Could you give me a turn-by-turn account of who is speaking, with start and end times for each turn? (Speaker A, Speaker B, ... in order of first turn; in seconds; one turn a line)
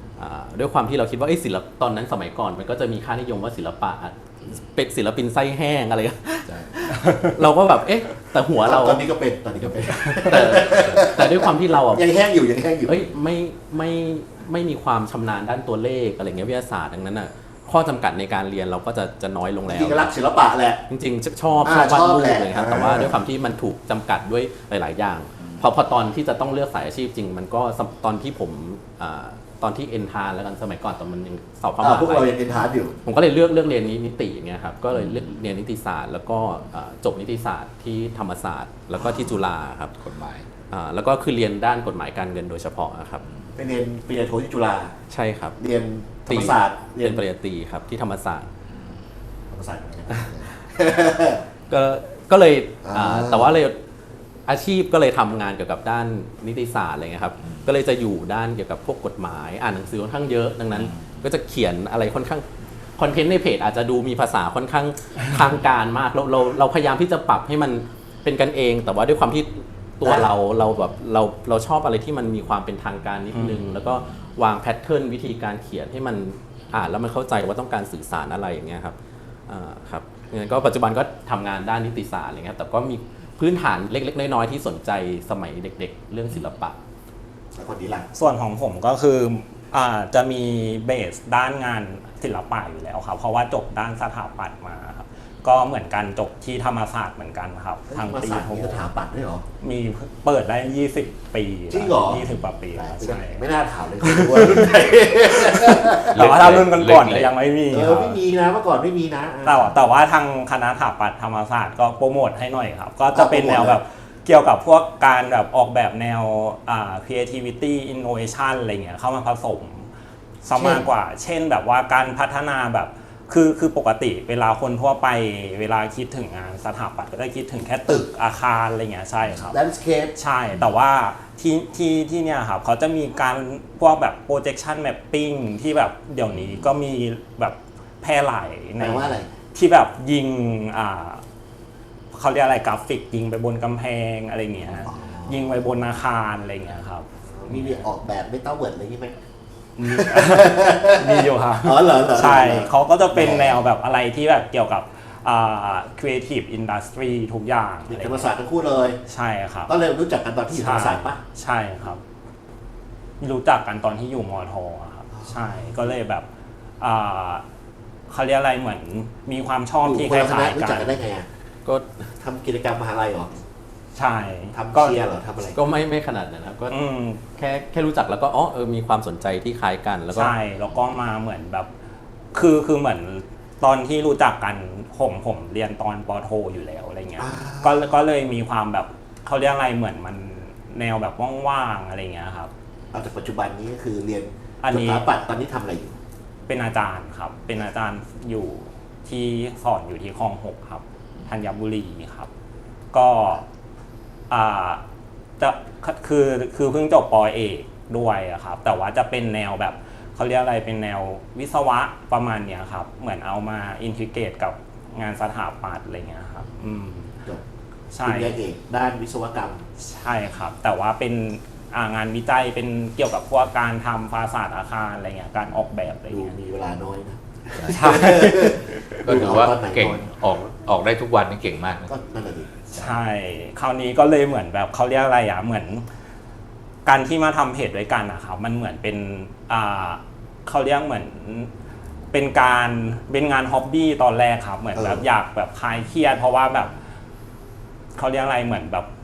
Speaker A: 0.1-9.0
Speaker B: 8.6-13.1
Speaker A: 9.6-12.0
Speaker A: 12.8-20.1
Speaker B: 19.6-20.8
Speaker A: 20.9-32.3
Speaker B: 21.6-23.2
Speaker B: 31.8-33.0
Speaker A: 33.0-40.0
Speaker C: 40.0-40.5
Speaker A: 40.7-43.2
Speaker B: 43.5-44.9
Speaker A: 45.1-45.6
Speaker B: 45.6-47.2
Speaker A: 46.3-48.5
Speaker B: 49.5-51.4
Speaker A: 51.7-53.8
Speaker B: 52.8-53.6
Speaker A: 54.5-79.0
Speaker C: 60.8-61.0
Speaker B: 70.0-70.3
Speaker A: 79.5-86.8
Speaker B: 87.5-88.1
Speaker D: 88.1-98.8
Speaker B: 97.9-99.5
Speaker D: 99.6-103.4
Speaker B: 101.7-106.2
Speaker D: 104.0-108.2
Speaker C: 106.1-107.3
Speaker B: 107.7-109.7
Speaker D: 109.4-119.9
Speaker B: 113.1-113.8
Speaker D: 120.4-129.6
Speaker B: 120.5-120.9
Speaker B: 129.5-130.1
Speaker D: 130.2-141.2
Speaker C: 136.4-136.6
Speaker B: 138.8-139.3
Speaker D: 142.1-147.8
Speaker B: 144.8-145.6
Speaker B: 147.3-149.2
Speaker D: 149.8-158.3
Speaker B: 149.9-153.6
Speaker B: 157.9-159.0
Speaker D: 159.1-159.7
Speaker B: 159.7-161.2
Speaker D: 160.5-162.0
Speaker D: 163.2-166.2
Speaker D: 166.8-167.4
Speaker D: 168.1-170.9
Speaker B: 169.8-171.3
Speaker A: 171.7-172.1
Speaker B: 172.2-173.4
Speaker D: 173.9-175.0
Speaker B: 174.5-175.6
Speaker A: 175.5-176.8
Speaker D: 176.7-177.2
Speaker A: 177.3-180.3
Speaker D: 180.1-181.7
Speaker D: 182.3-192.5
Speaker B: 187.2-187.9
Speaker B: 192.9-196.0
Speaker D: 194.6-195.1
Speaker D: 196.5-202.3
Speaker D: 202.9-203.4
Speaker D: 204.3-204.8
Speaker D: 205.4-217.1
Speaker D: 217.9-218.3
Speaker B: 218.0-219.6
Speaker D: 219.8-226.3
Speaker B: 226.1-230.4
Speaker C: 227.6-228.0
Speaker D: 227.7-228.8
Speaker C: 229.0-231.9
Speaker B: 231.9-232.9
Speaker D: 232.7-235.8
Speaker D: 236.8-241.5
Speaker D: 242.1-246.8
Speaker B: 244.8-245.0
Speaker D: 247.9-248.9